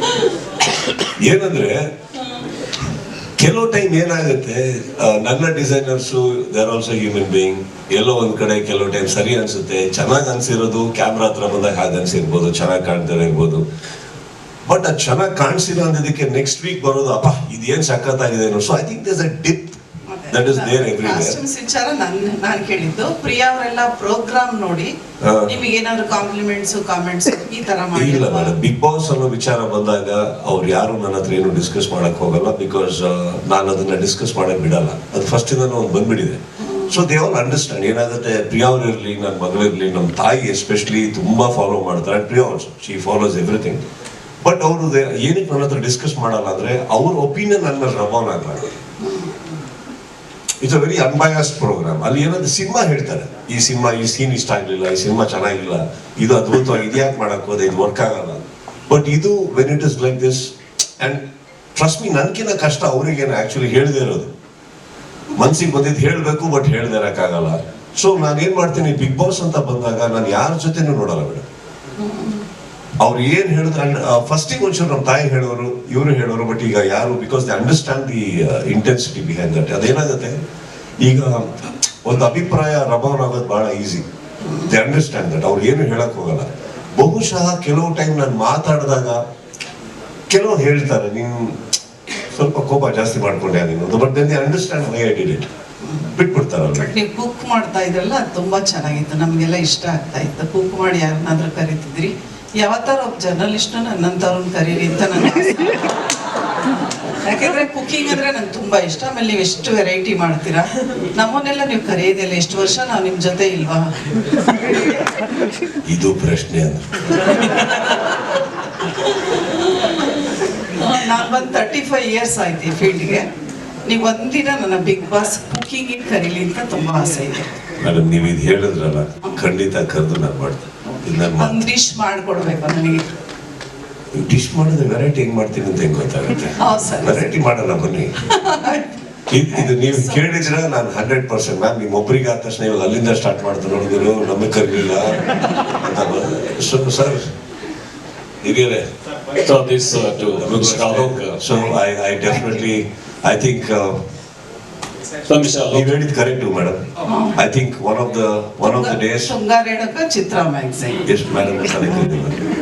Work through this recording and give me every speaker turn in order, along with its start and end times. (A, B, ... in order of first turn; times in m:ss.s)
0:01.0-0:01.9 A
0:03.4-0:13.6 A
0:14.7-0:19.8 A
0:20.1-0:24.9 B
0:20.3-0:21.4 A
0:25.2-0:25.5 A
0:25.5-0:28.6 B
0:27.9-0:43.8 A
0:44.4-0:48.7 A
0:49.0-0:49.4 B
0:50.6-1:01.2 A
1:01.8-1:04.3 A
1:05.4-1:11.4 A
1:12.0-1:12.4 B
1:13.0-1:20.4 A
1:21.0-1:24.0 A
1:24.5-1:24.7 B
1:24.6-1:29.2 A
1:30.3-1:31.6 A
1:32.3-1:35.5 A
1:36.1-1:36.9 A
1:36.8-1:45.9 B
1:47.2-1:55.0 B
1:55.8-1:57.2 A
2:00.7-2:03.3 B
2:03.9-2:07.5 B
2:07.8-2:11.6 A
2:11.4-2:13.0 B
2:14.2-2:18.1 A
2:16.6-2:17.4 B
2:18.2-2:18.9 B
2:19.3-2:25.2 A
2:19.5-2:20.7 B
2:25.8-2:27.3 A
2:28.4-2:28.8 A
2:29.4-2:31.4 C
2:30.4-2:34.0 A
2:35.3-2:35.9 C
2:35.6-2:36.8 A
2:37.1-2:37.4 B
2:37.4-2:39.3 A
2:38.6-2:41.1 B
2:41.1-2:42.5 A